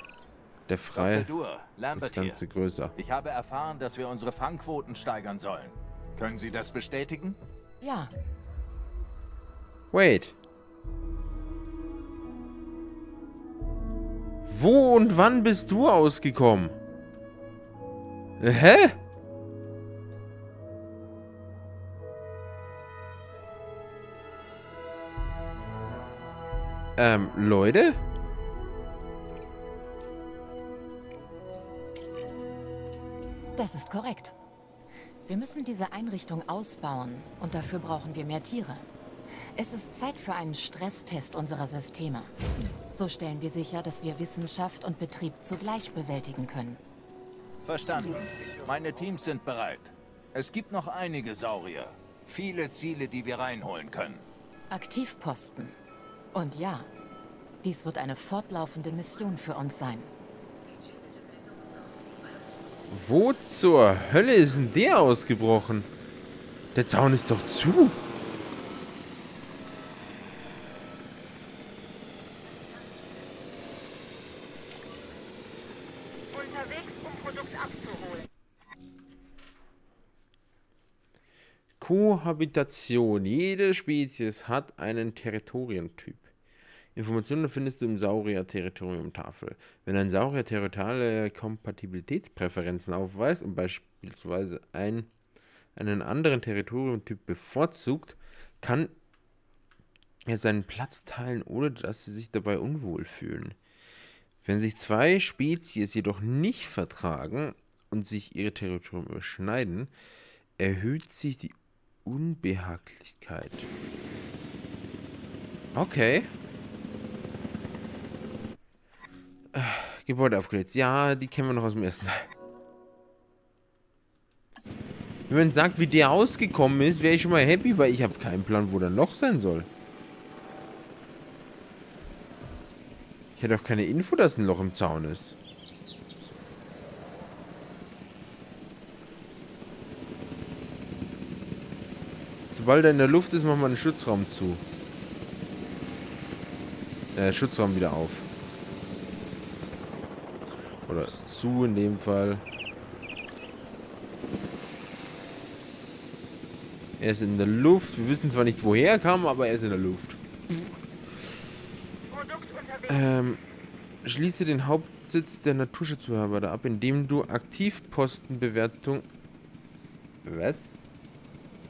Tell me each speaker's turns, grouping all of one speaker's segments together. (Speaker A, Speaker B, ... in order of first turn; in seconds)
Speaker A: 0.7-1.3, 1.9-2.9, 9.9-10.4, 14.5-16.8, 18.4-19.0, 27.0-28.0, 62.9-65.9, 66.7-68.0, 81.8-86.3, 87.0-95.1, 95.8-98.9, 100.3-103.6, 104.4-109.9, 110.6-113.7, 115.7-116.3, 119.5-122.3, 125.3-129.7, 133.4-135.4, 142.5-144.6, 147.2-148.3, 150.9-152.4, 157.0-160.2, 162.9-163.4, 164.0-169.1, 170.2-170.7
Speaker B: 0.9-2.4, 3.0-7.4, 47.6-54.2
Speaker C: 7.8-8.1, 33.6-34.4, 35.3-38.9, 39.5-42.3, 42.9-46.8, 54.7-55.8, 56.3-56.9, 57.6-60.1
Speaker D: 76.3-78.3, 162.1-162.8